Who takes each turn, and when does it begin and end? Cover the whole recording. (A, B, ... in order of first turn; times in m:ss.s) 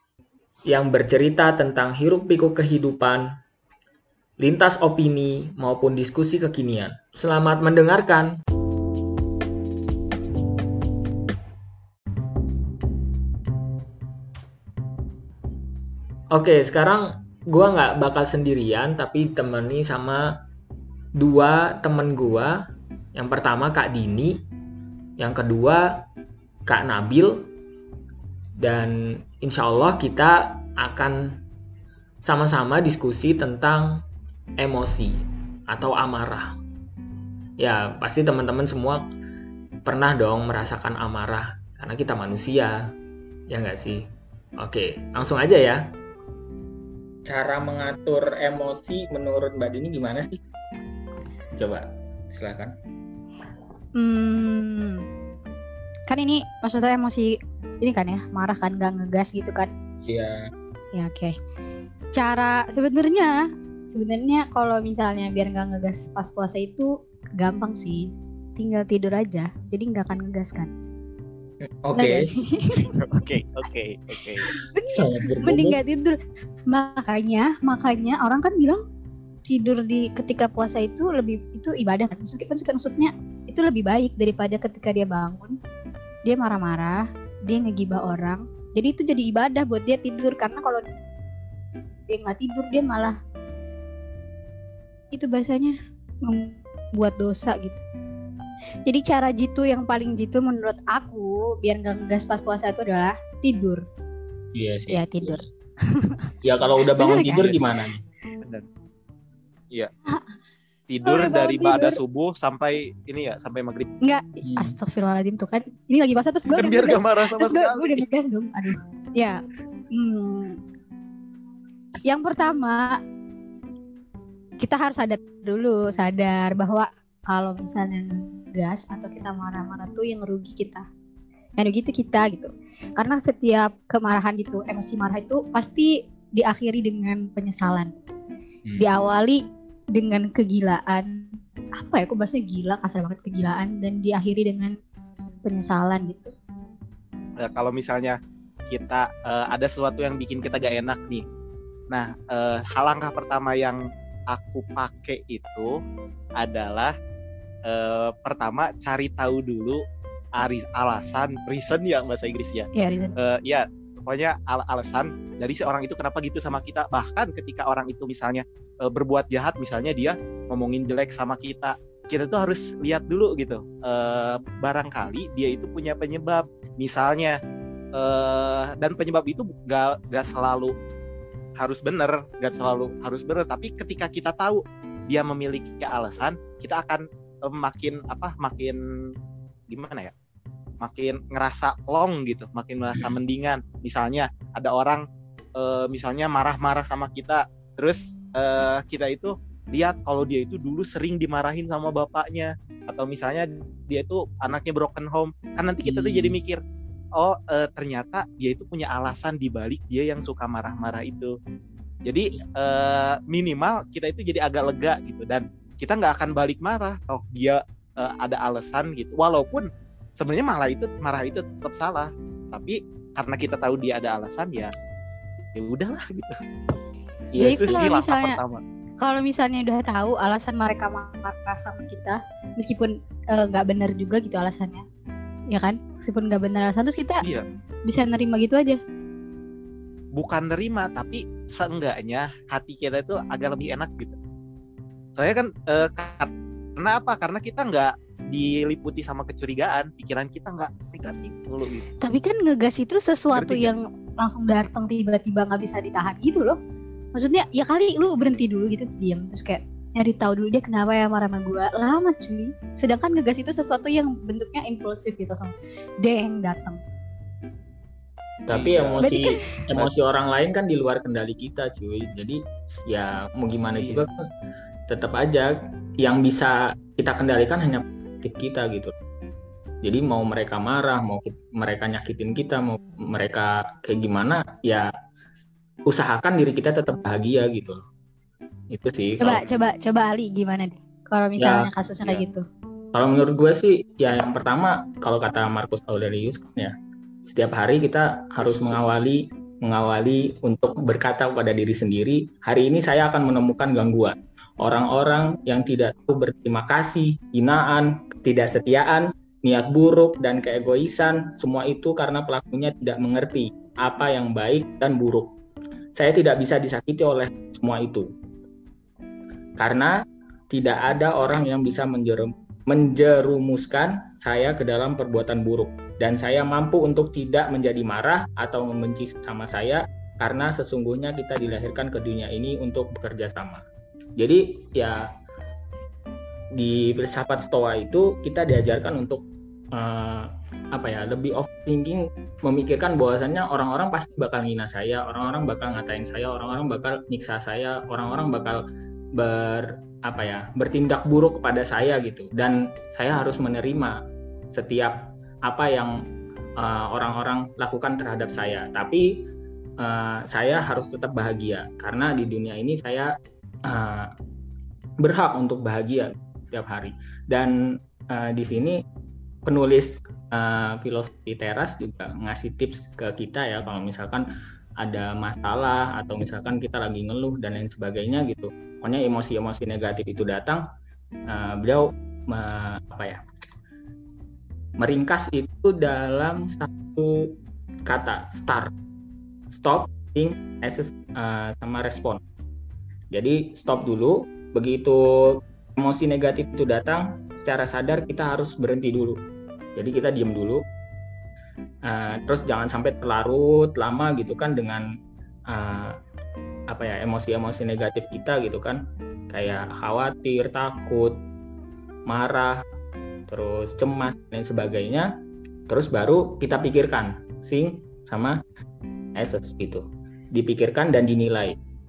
0:00.7-0:03.3 A
0:04.4-0:08.4 A
0:16.3-0:20.4 A
0:21.2-0:22.6 A
0:23.2-0:24.4 A
0:25.2-0:26.0 A
0:26.7-0:27.4 A
0:28.6-0:31.4 A
0:32.2-0:34.0 A
0:34.6-0:36.5 A
0:37.6-0:39.0 A
0:39.8-0:42.8 A
0:43.5-0:44.0 A
0:44.6-0:45.8 A
0:47.3-0:50.4 A
0:51.6-0:52.7 A
0:54.0-0:55.0 B
0:56.1-0:59.7 B
1:00.1-1:00.5 A
1:00.9-1:01.4 B
1:02.2-1:03.4 B
1:03.9-1:10.7 B
1:11.6-1:12.3 A
1:11.9-1:13.2 B
1:12.8-1:14.5 C
1:14.5-1:15.8 A
1:14.8-1:16.2 B
1:16.7-1:18.8 B
1:19.5-1:25.5 B
1:26.2-1:30.8 B
1:32.1-1:33.2 B
1:35.1-1:37.8 B
1:38.9-1:43.8 B
1:44.6-1:45.4 A
1:44.9-1:46.3 B
1:46.4-1:48.0 A
1:46.8-1:47.5 B
1:47.4-1:47.6 C
1:50.9-1:53.9 C
1:51.0-1:52.0 B
1:54.0-1:59.4 B
1:54.4-1:54.8 A
1:56.5-1:58.0 C
1:59.9-2:00.6 B
2:02.0-2:03.0 B
2:04.6-2:10.8 B
2:11.6-2:17.9 B
2:18.8-2:19.4 B
2:19.9-2:21.3 B
2:21.8-2:24.8 B
2:25.4-2:26.3 B
2:27.4-2:28.2 C
2:28.7-2:31.2 C
2:31.9-2:33.8 C
2:34.3-2:35.7 C
2:36.4-2:36.9 C
2:37.7-2:39.8 C
2:40.4-2:57.4 C
2:42.8-2:43.1 B
2:58.0-3:00.7 C
3:01.6-3:08.8 C
3:09.7-3:10.1 C
3:10.8-3:15.0 C
3:15.6-3:26.6 C
3:25.8-3:26.4 A
3:27.2-3:31.3 C
3:32.0-3:39.7 C
3:40.2-3:44.7 C
3:45.6-3:46.4 C
3:47.3-3:47.9 A
3:47.4-3:48.6 C
3:47.4-3:48.4 B
3:49.0-3:54.8 B
3:55.5-3:57.3 B
3:57.9-3:58.8 B
4:00.2-4:04.2 C
4:05.2-4:11.9 C
4:12.0-4:16.6 B
4:13.3-4:13.7 C
4:17.1-4:26.8 B
4:28.5-4:34.2 A
4:28.5-4:29.2 C
4:29.0-4:29.4 B
4:33.8-4:34.1 C
4:34.9-4:38.9 A
4:39.8-4:44.9 A
4:45.9-4:47.8 A
4:48.7-4:49.4 A
4:49.2-4:52.4 B
4:51.4-4:51.7 A
4:52.9-4:56.7 A
4:57.2-5:15.3 A
4:58.4-4:58.9 C
5:15.9-5:18.1 A
5:19.6-5:19.9 A
5:20.5-5:33.6 A
5:34.2-5:35.0 A
5:36.6-5:39.2 A
5:39.7-5:48.6 A
5:49.2-5:54.0 A
5:54.5-5:55.9 A
5:56.6-5:59.1 A
5:59.8-6:03.1 A
6:03.7-6:04.1 A
6:05.0-6:07.5 A
6:08.1-6:08.8 A
6:09.5-6:14.2 A
6:14.8-6:20.6 A
6:21.3-6:23.2 A
6:24.8-6:27.3 A
6:27.9-6:28.7 A
6:29.5-6:32.2 A
6:33.1-6:39.2 A
6:39.8-6:40.6 A
6:41.8-6:44.8 A
6:45.5-6:46.0 A
6:46.7-6:51.2 A
6:52.1-6:52.6 A
6:53.3-6:55.1 A
6:55.7-6:58.4 A
6:59.2-7:01.6 A